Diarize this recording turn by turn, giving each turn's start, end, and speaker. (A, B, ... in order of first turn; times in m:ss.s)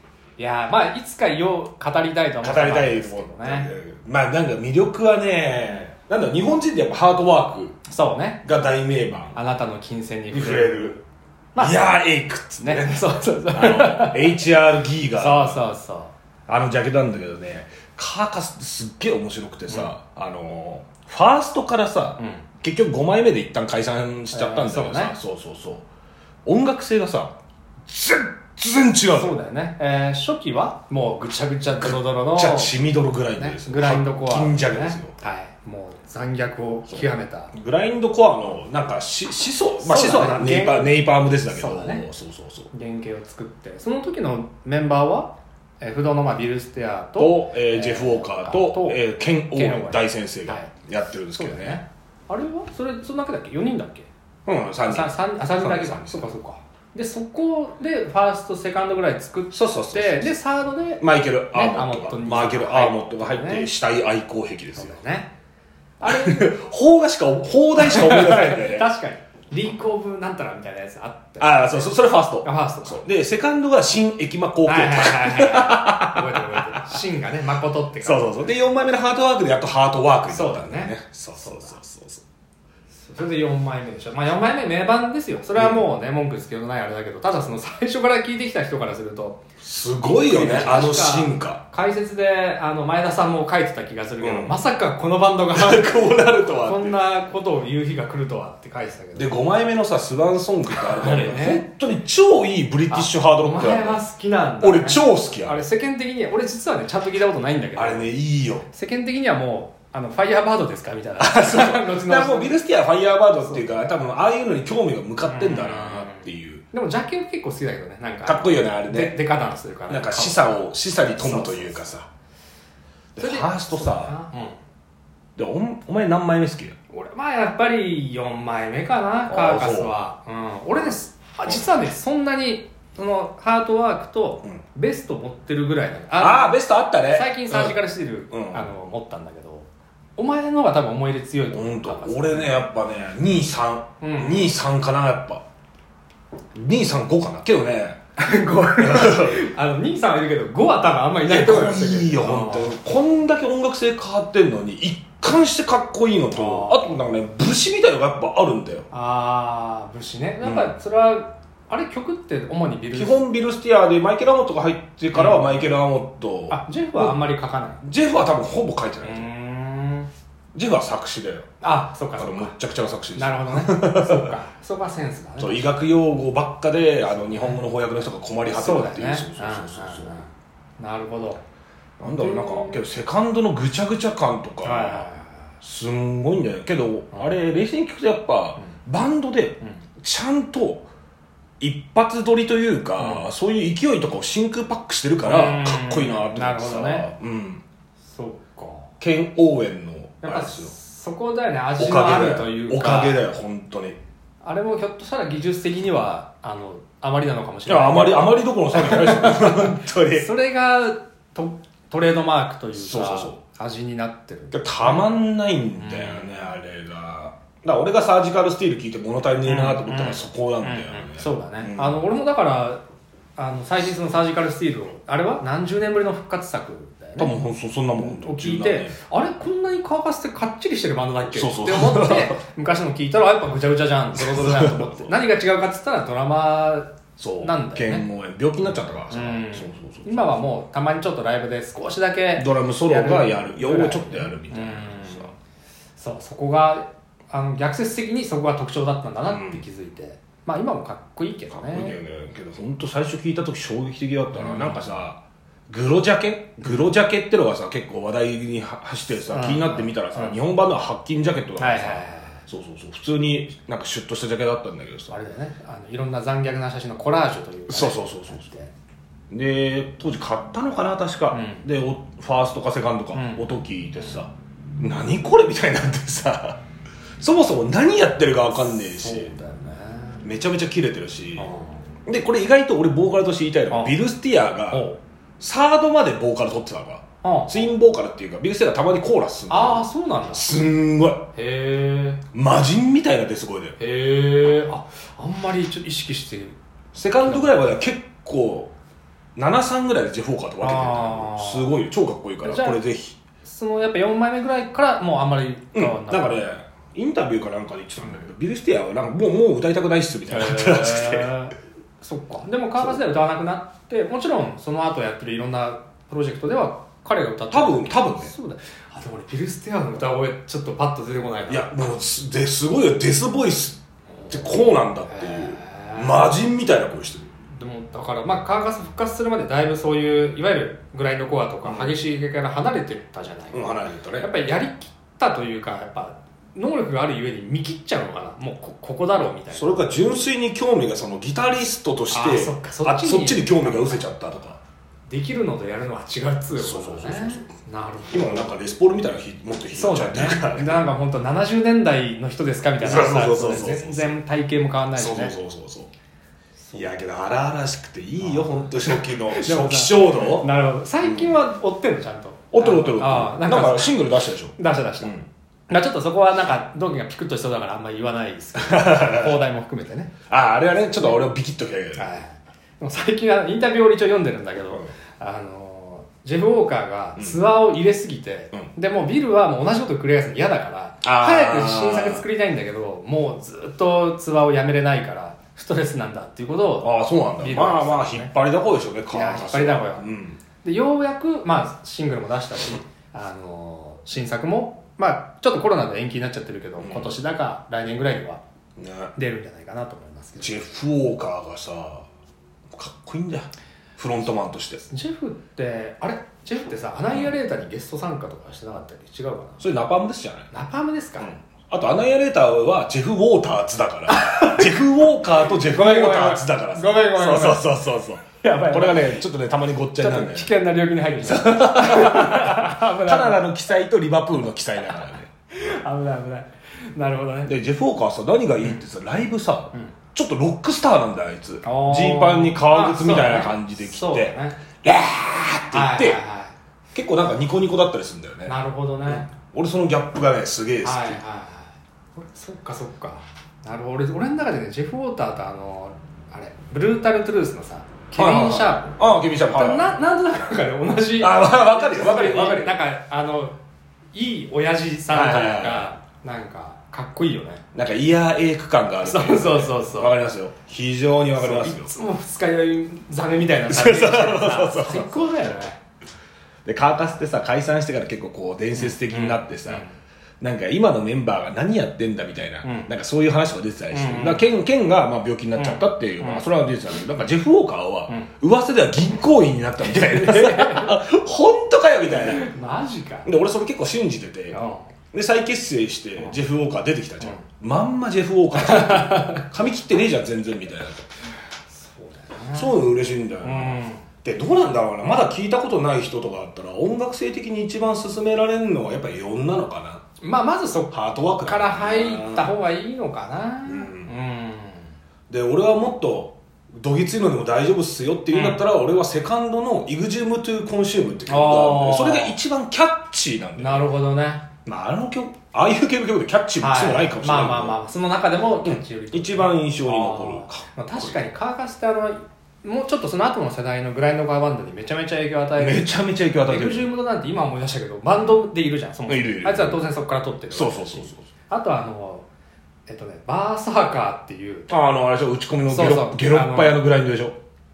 0:00.4-0:03.7 A
0:02.4-0:07.8 B
0:07.9-0:08.4 A
0:08.4-0:09.4 B
0:09.4-0:11.0 A
0:10.3-0:11.0 B
0:11.6-0:11.8 A
0:11.6-0:15.6 B
0:12.6-0:14.4 A
0:15.2-0:16.1 A
0:16.5-0:25.9 B
0:22.2-0:22.4 A
0:24.3-0:25.2 A
0:26.4-0:27.4 B
0:27.9-0:29.4 B
0:29.1-0:32.7 A
0:31.8-0:35.1 B
0:33.4-0:37.5 A
0:36.9-0:42.7 B
0:39.8-0:42.0 A
0:42.7-0:49.0 A
0:47.2-0:51.8 B
0:49.5-0:50.7 A
0:51.3-0:54.1 A
0:54.5-0:56.3 B
0:54.8-1:03.7 A
0:59.5-1:00.3 B
1:01.0-1:05.0 B
1:04.8-1:05.3 A
1:06.0-1:06.5 A
1:06.0-1:08.9 B
1:07.8-1:13.1 A
1:11.4-1:17.0 B
1:14.6-1:18.5 A
1:18.0-1:22.2 B
1:20.3-1:21.8 A
1:23.0-1:29.4 A
1:25.6-1:25.9 B
1:29.6-1:31.6 B
1:30.2-1:36.0 A
1:34.2-1:34.6 B
1:35.5-1:37.0 B
1:36.6-1:39.3 A
1:39.2-1:44.0 B
1:40.7-1:41.6 A
1:42.9-1:48.1 A
1:44.6-1:45.6 B
1:47.8-1:48.7 B
1:48.7-1:52.6 A
1:51.2-1:56.6 B
1:53.4-1:53.8 A
1:55.2-2:00.6 A
1:58.2-1:59.2 B
1:59.9-2:02.1 B
2:01.2-2:01.9 A
2:03.2-2:04.2 B
2:03.2-2:04.6 A
2:05.4-2:06.8 B
2:06.9-2:22.6 A
2:09.3-2:10.0 B
2:16.2-2:18.7 B
2:21.5-2:25.4 B
2:24.0-2:24.5 A
2:26.6-2:28.0 B
2:28.2-2:32.8 A
2:28.7-2:29.4 B
2:31.3-2:38.9 B
2:36.3-2:36.9 A
2:38.9-2:43.2 A
2:40.4-2:40.8 B
2:42.9-2:47.2 B
2:45.1-2:45.7 A
2:46.5-2:47.8 A
2:47.8-2:49.3 B
2:49.0-2:50.1 A
2:50.5-2:51.5 B
2:51.6-2:52.6 A
2:52.2-2:54.3 B
2:53.2-2:55.7 A
2:55.4-3:00.2 B
2:57.2-2:57.6 A
2:58.5-3:01.4 A
3:02.0-3:05.1 B
3:02.1-3:02.8 A
3:04.6-3:05.5 A
3:05.6-3:10.9 B
3:11.6-3:17.6 B
3:13.0-3:13.2 A
3:15.2-3:17.1 A
3:18.1-3:18.9 A
3:19.0-3:20.7 B
3:20.2-3:23.2 A
3:21.8-3:24.0 B
3:24.4-3:35.1 A
3:27.7-3:30.3 B
3:32.8-3:33.4 B
3:34.5-3:42.0 B
3:35.7-3:36.6 A
3:39.4-3:42.8 A
3:43.4-3:47.3 A
3:47.2-3:49.0 B
3:48.0-3:58.0 A
3:51.3-3:52.4 B
3:54.2-3:55.2 B
3:57.2-4:00.4 B
3:59.1-4:05.3 A
4:02.4-4:05.3 B
4:06.0-4:12.0 A
4:09.3-4:09.6 B
4:11.5-4:25.2 B
4:14.3-4:14.8 A
4:19.3-4:20.4 A
4:21.6-4:22.4 A
4:25.1-4:28.7 A
4:27.7-4:28.5 B
4:29.3-4:36.6 B
4:31.3-4:31.6 A
4:33.1-4:33.5 A
4:37.2-4:39.3 B
4:38.5-4:40.2 A
4:40.2-4:41.5 B
4:41.4-4:41.9 A
4:42.1-4:44.9 B
4:43.7-4:44.0 A
4:44.7-4:45.0 A
4:45.4-4:51.3 B
4:47.2-4:47.7 A
4:49.5-4:50.5 A
4:51.4-4:52.2 A
4:52.3-4:53.8 B
4:53.8-4:56.6 A
4:56.9-4:58.7 B
4:57.2-4:57.6 A
4:59.4-5:03.2 B
5:00.6-5:01.7 A
5:02.4-5:02.8 A
5:03.4-5:06.4 A
5:05.7-5:11.3 B
5:10.3-5:21.7 A
5:17.5-5:18.3 B
5:21.5-5:27.3 B
5:24.2-5:24.5 A
5:25.1-5:26.3 A
5:27.5-5:39.9 A
5:31.6-5:32.0 B
5:33.5-5:34.3 B
5:39.5-5:44.6 B
5:42.1-5:44.0 A
5:45.1-5:48.5 A
5:46.6-5:47.5 B
5:48.1-5:50.8 B
5:49.7-5:55.4 A
5:52.8-5:54.1 B
5:55.0-5:55.9 B
5:56.6-5:57.0 A
5:56.7-6:00.5 B
5:58.2-6:04.0 A
6:01.0-6:01.4 B
6:02.5-6:05.3 B
6:04.6-6:05.2 A
6:05.7-6:10.1 A
6:08.6-6:09.4 B
6:10.3-6:12.1 B
6:10.8-6:11.2 A
6:12.0-6:28.3 A
6:14.6-6:14.9 B
6:17.2-6:17.5 B
6:21.0-6:22.2 B
6:26.8-6:30.4 B
6:29.1-6:30.1 A
6:30.6-6:38.4 A
6:36.8-6:37.2 B
6:38.8-6:39.1 B
6:39.2-6:40.7 A
6:40.4-6:42.1 B
6:42.7-6:44.9 B
6:44.9-6:49.6 A
6:49.6-6:50.5 B
6:50.5-6:51.4 A
6:51.2-7:00.5 B
6:54.1-6:54.7 A
6:55.6-6:57.7 A
6:58.4-6:59.1 A
7:00.0-7:03.5 A
7:01.2-7:05.3 B
7:05.5-7:07.5 A
7:07.5-7:16.2 B
7:11.6-7:14.6 A
7:15.7-7:16.5 A
7:16.9-7:18.6 B
7:18.5-7:19.3 A
7:19.1-7:21.2 B
7:20.8-7:33.6 A
7:28.2-7:30.0 B
7:31.2-7:32.8 B
7:34.1-7:37.6 A
7:35.1-7:35.9 B
7:37.7-7:41.9 B
7:39.0-7:40.1 A
7:41.4-7:45.8 A
7:43.7-7:45.1 B
7:46.6-7:49.8 B
7:48.8-7:49.9 A
7:50.4-8:02.5 B
7:52.6-7:52.9 A
7:53.9-7:54.5 A
7:55.6-7:56.5 A
7:59.9-8:01.0 A
8:02.2-8:03.3 A
8:03.3-8:04.6 B
8:04.5-8:04.9 A
8:05.1-8:11.1 B
8:08.5-8:09.4 A
8:11.7-8:12.8 A
8:12.6-8:20.0 B
8:13.4-8:14.0 A
8:20.2-8:24.9 A
8:20.9-8:22.5 B
8:23.7-8:24.1 B
8:25.3-8:33.9 B
8:28.3-8:28.6 A
8:31.3-8:32.4 A
8:33.6-8:34.5 A
8:34.6-8:37.8 B
8:36.6-8:45.9 A
8:38.6-8:41.2 B
8:45.6-8:46.9 B
8:46.5-8:52.3 A
8:49.1-8:49.8 B
8:50.5-8:51.3 B
8:52.9-8:54.7 A
8:54.7-8:57.4 B
8:55.7-8:56.8 A